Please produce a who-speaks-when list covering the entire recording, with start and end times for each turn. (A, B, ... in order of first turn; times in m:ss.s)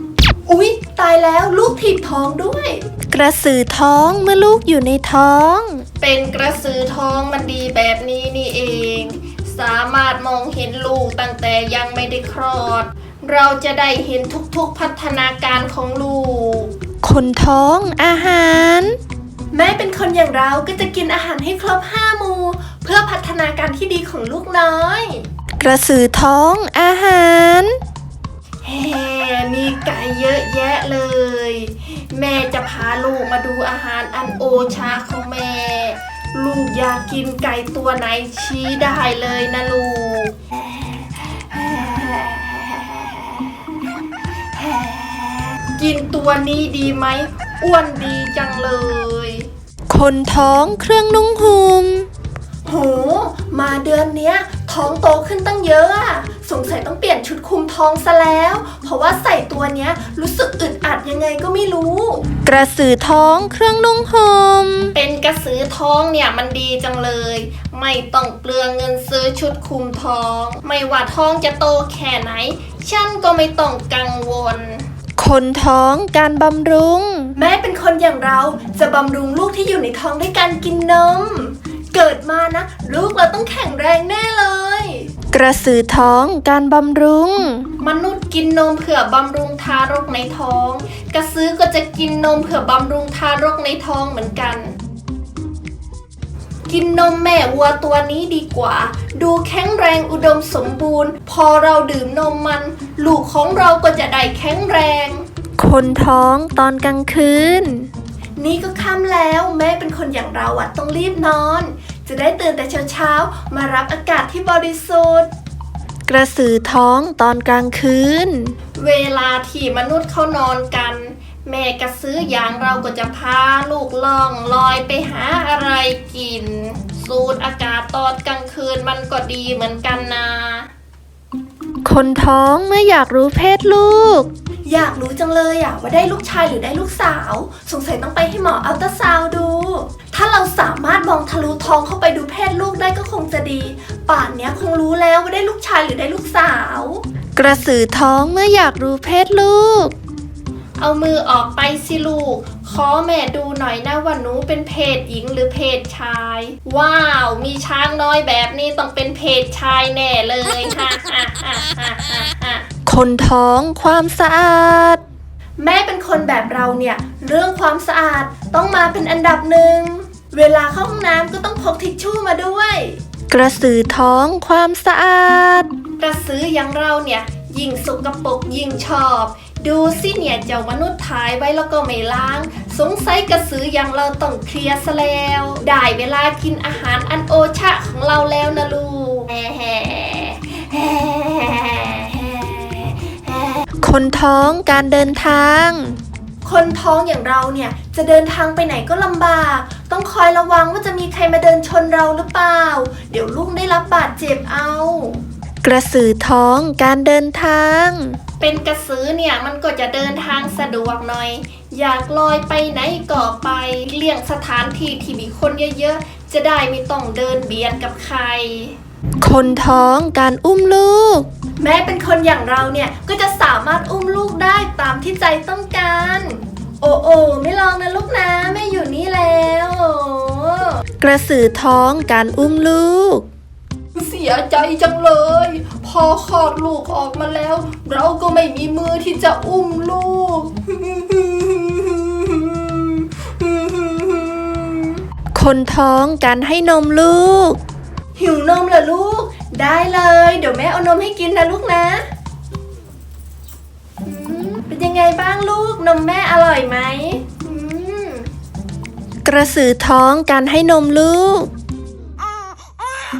0:00.4-0:02.8 A
0:03.1-0:05.8 B
0:06.0-0:16.7 A
0:17.0-0:19.0 B
0:19.5-0:25.2 A
0:25.6-0:27.8 B
0:28.6-0:43.8 A
0:44.5-0:49.5 A
0:49.9-0:52.1 B
0:52.6-1:02.3 A
1:02.4-1:04.9 B
1:04.9-1:14.8 A
1:15.2-1:17.3 B
1:17.4-1:25.1 A
1:25.3-1:27.7 B
1:27.8-1:34.7 A
1:36.7-1:45.2 A
1:45.6-1:47.9 B
1:48.4-1:55.3 A
1:56.1-1:58.5 B
1:58.8-2:10.7 A
2:11.8-2:14.3 B
2:14.6-2:27.0 A
2:27.4-2:29.9 B
2:30.8-2:42.7 A
2:42.8-2:45.0 B
2:45.6-2:53.0 A
2:53.3-2:55.7 B
2:56.0-3:13.6 A
3:13.8-3:16.0 B
3:16.4-3:25.2 A
3:25.6-3:28.2 B
3:28.4-3:38.8 A
3:39.2-3:41.3 B
3:41.6-3:50.8 A
3:51.0-3:53.3 B
3:53.9-4:05.0 A
4:05.3-4:07.6 B
4:08.2-4:12.0 A
4:14.0-4:18.3 A
4:19.2-4:21.5 B